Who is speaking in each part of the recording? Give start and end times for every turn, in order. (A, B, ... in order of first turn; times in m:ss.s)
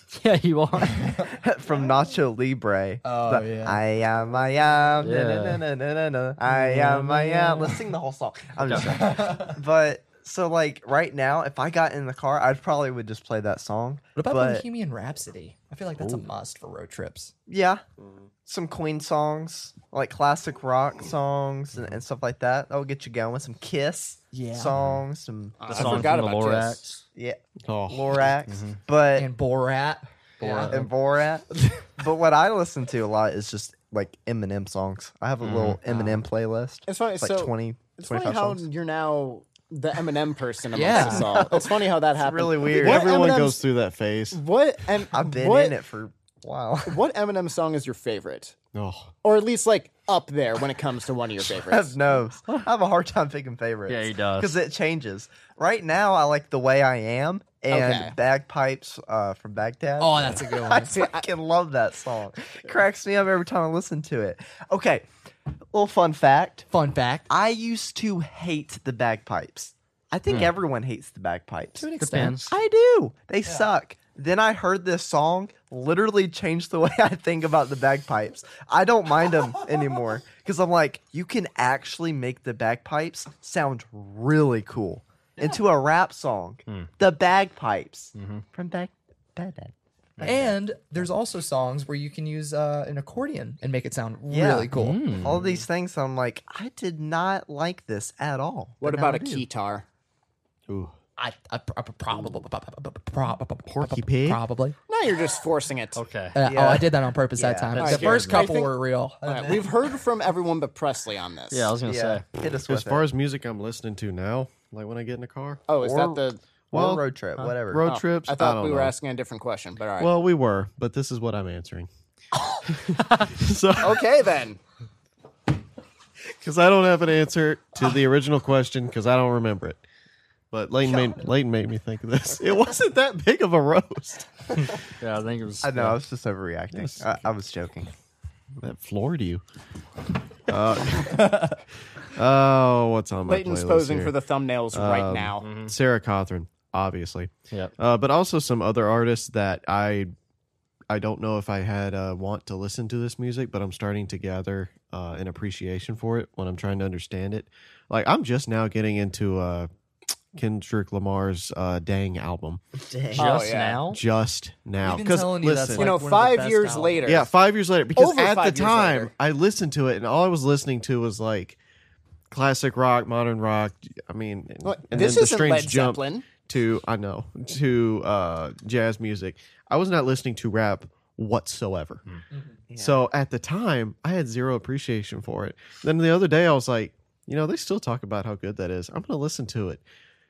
0:00.1-0:01.2 A
0:01.1-0:14.6 B
0:03.0-0:03.8 C
0:05.0-0:05.6 A
0:06.5-0:07.8 C
0:08.6-0:08.9 A
0:08.7-0:09.6 C
0:14.2-0:17.3 C
0:17.5-0:17.8 B
0:18.4-0:26.1 B
0:24.3-0:24.8 C
0:25.6-0:26.8 D
0:25.7-0:27.0 A
0:27.2-0:29.3 B
0:27.6-0:28.3 E
0:28.5-0:28.8 A
0:29.2-0:30.9 C
0:30.4-0:30.9 A
0:30.6-0:38.6 B
0:31.6-0:31.9 C
0:35.4-0:35.8 A
0:35.9-0:36.2 C
0:36.9-0:43.6 D
0:40.7-0:41.3 C
0:40.9-0:43.4 B
0:42.7-0:44.4 E
0:44.3-0:45.8 D
0:45.1-0:47.0 B
0:46.9-0:48.6 D
0:48.7-0:49.1 E
0:49.2-0:51.9 D
0:51.5-1:05.1 B
0:53.9-0:54.5 A
0:57.7-0:58.2 D
1:00.0-1:00.9 C
1:00.8-1:01.3 D
1:05.7-1:06.7 B
1:06.7-1:07.3 C
1:07.3-1:11.9 B
1:11.8-1:12.4 C
1:12.0-1:12.6 A
1:12.4-1:31.0 B
1:28.2-1:28.4 A
1:30.2-1:35.1 C
1:34.3-1:39.5 B
1:34.8-1:35.4 A
1:38.8-1:39.8 D
1:40.7-1:41.0 E
1:41.2-1:44.8 C
1:43.7-1:44.4 E
1:44.9-1:46.0 D
1:46.0-1:46.4 A
1:46.3-1:49.7 C
1:46.4-1:48.0 B
1:47.7-1:48.5 A
1:47.8-1:51.7 D
1:49.2-1:49.7 B
1:51.5-1:52.2 A
1:51.8-1:53.0 B
1:52.7-1:55.6 E
1:55.7-1:56.4 D
1:55.8-1:56.2 B
1:56.7-1:57.9 B
1:56.7-1:57.0 E
1:57.7-1:58.9 E
1:57.8-2:00.1 D
2:00.0-2:01.9 E
2:02.7-2:04.0 E
2:03.8-2:04.6 D
2:06.4-2:09.8 E
2:10.5-2:14.8 E
2:14.6-2:16.0 A
2:15.6-2:17.9 B
2:16.7-2:17.2 E
2:18.6-2:19.4 E
2:20.5-2:24.1 E
2:23.3-2:25.5 D
2:24.7-2:30.1 E
2:25.4-2:25.7 A
2:30.9-2:39.7 E
2:40.3-2:42.6 E
2:42.8-2:43.3 B
2:43.2-2:44.0 A
2:43.2-2:43.8 D
2:43.9-2:45.9 E
2:44.8-2:47.3 C
2:45.8-2:47.3 D
2:47.0-2:51.6 E
2:48.0-2:49.1 D
2:52.3-3:02.0 E
2:54.6-2:56.3 D
3:02.3-3:02.6 C
3:02.7-3:03.0 B
3:02.8-3:09.8 E